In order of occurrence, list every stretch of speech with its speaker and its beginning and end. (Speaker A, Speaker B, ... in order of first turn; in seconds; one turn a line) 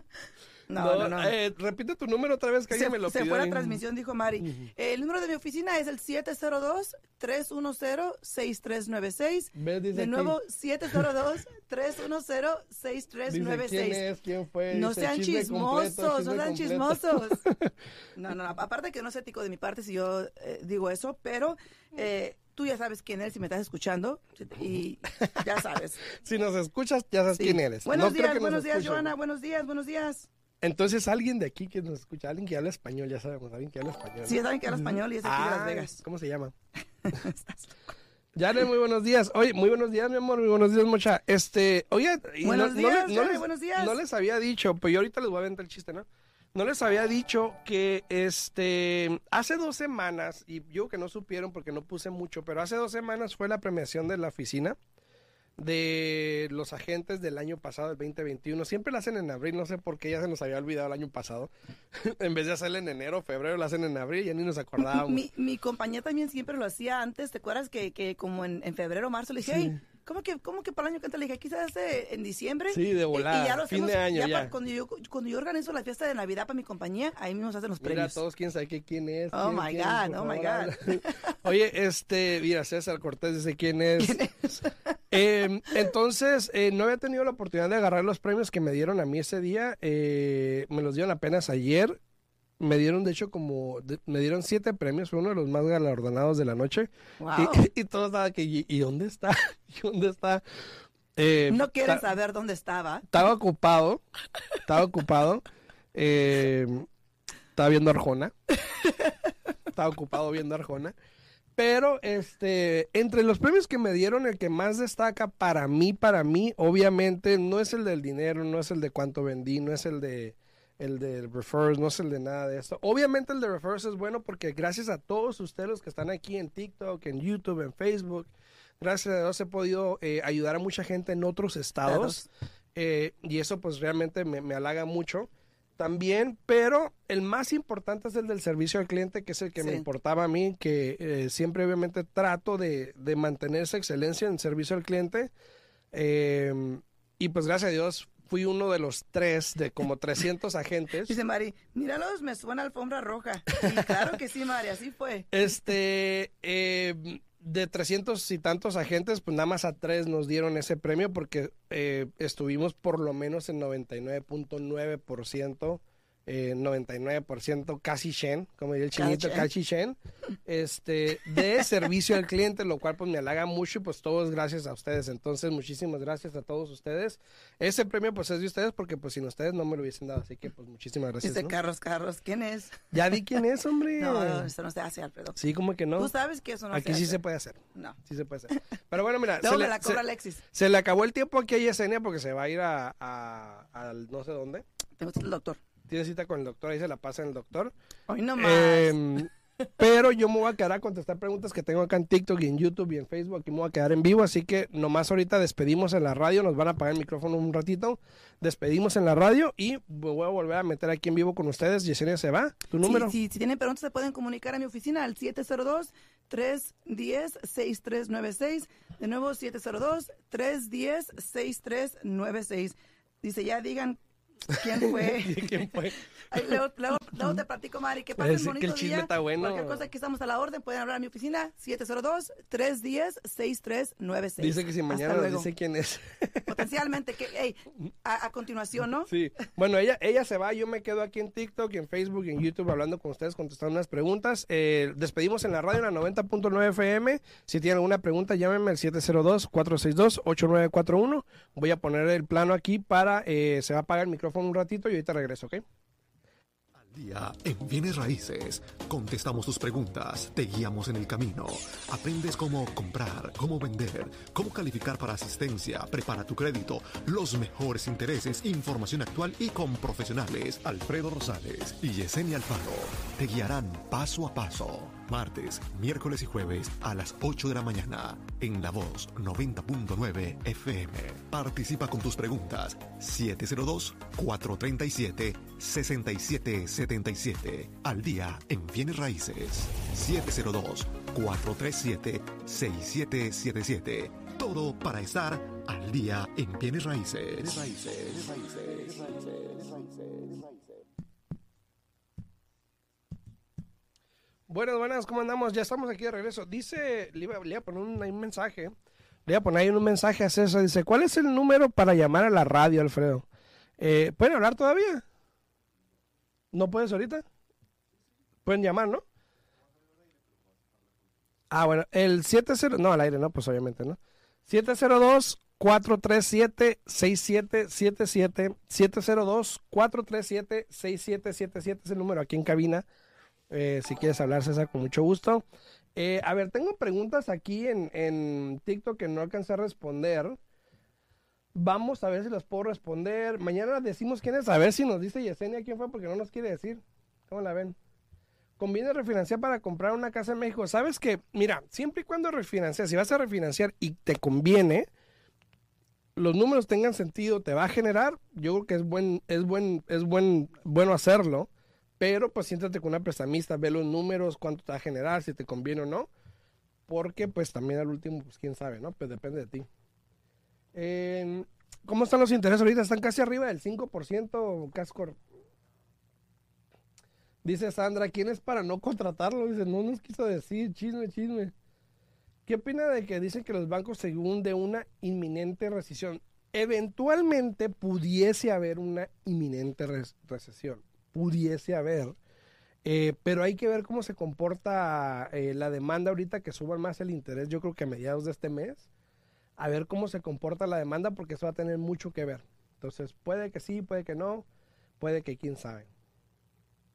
Speaker A: 0.7-1.3
Speaker B: 0.8-3.8
Speaker A: 2.7-14.0
Speaker B: 4.4-4.7
Speaker B: 9.6-10.4
Speaker B: 13.3-17.7
Speaker A: 14.7-17.4
Speaker A: 18.1-26.0
Speaker B: 26.1-29.1
Speaker A: 27.4-30.3
Speaker B: 30.6-36.5
Speaker A: 34.2-36.0
Speaker A: 37.0-37.8
Speaker B: 38.3-54.8
Speaker A: 42.4-44.0
Speaker B: 55.6-65.2
Speaker A: 64.8-78.2
Speaker B: 69.4-69.8
Speaker B: 72.7-74.5
Speaker B: 77.8-84.2
Speaker A: 79.3-81.3
Speaker A: 84.0-84.8
Speaker B: 85.1-92.0
Speaker B: 92.6-100.4
Speaker A: 97.2-97.6
Speaker B: 101.2-102.0
Speaker A: 101.5-103.1
Speaker B: 103.1-104.0
Speaker B: 104.7-106.9
Speaker B: 107.5-108.3
Speaker B: 109.7-110.9
Speaker B: 111.5-145.3
Speaker A: 131.8-132.3
Speaker A: 139.6-139.8
Speaker B: 145.9-151.1
Speaker A: 151.0-155.3
Speaker B: 155.3-181.5
Speaker A: 168.9-169.5
Speaker A: 181.2-182.9
Speaker B: 182.9-184.5
Speaker A: 184.0-185.4
Speaker B: 185.3-186.1
Speaker A: 186.0-187.2
Speaker B: 186.7-190.0
Speaker A: 189.4-190.4
Speaker B: 190.5-194.6
Speaker A: 195.0-195.6
Speaker B: 195.9-197.7
Speaker A: 198.1-199.0
Speaker B: 198.4-213.1
Speaker A: 212.8-224.0
Speaker A: 224.5-235.5
Speaker B: 224.7-226.6
Speaker B: 228.2-229.8
Speaker B: 234.4-236.7
Speaker A: 236.5-239.1
Speaker B: 239.1-255.6
Speaker C: 256.7-300.8
Speaker B: 304.5-308.7
Speaker B: 309.2-313.2
Speaker B: 313.8-315.0
Speaker B: 316.5-317.2
Speaker B: 318.4-319.0
Speaker B: 321.5-332.9
Speaker B: 333.5-335.4
Speaker B: 335.9-340.4
Speaker B: 341.5-347.8
Speaker B: 348.6-354.9
Speaker B: 356.1-366.1
Speaker B: 366.9-369.7
Speaker B: 370.7-375.2
Speaker B: 377.4-381.5
Speaker B: 382.4-392.2
Speaker B: 392.8-398.9
Speaker B: 399.6-404.4
Speaker B: 405.0-405.9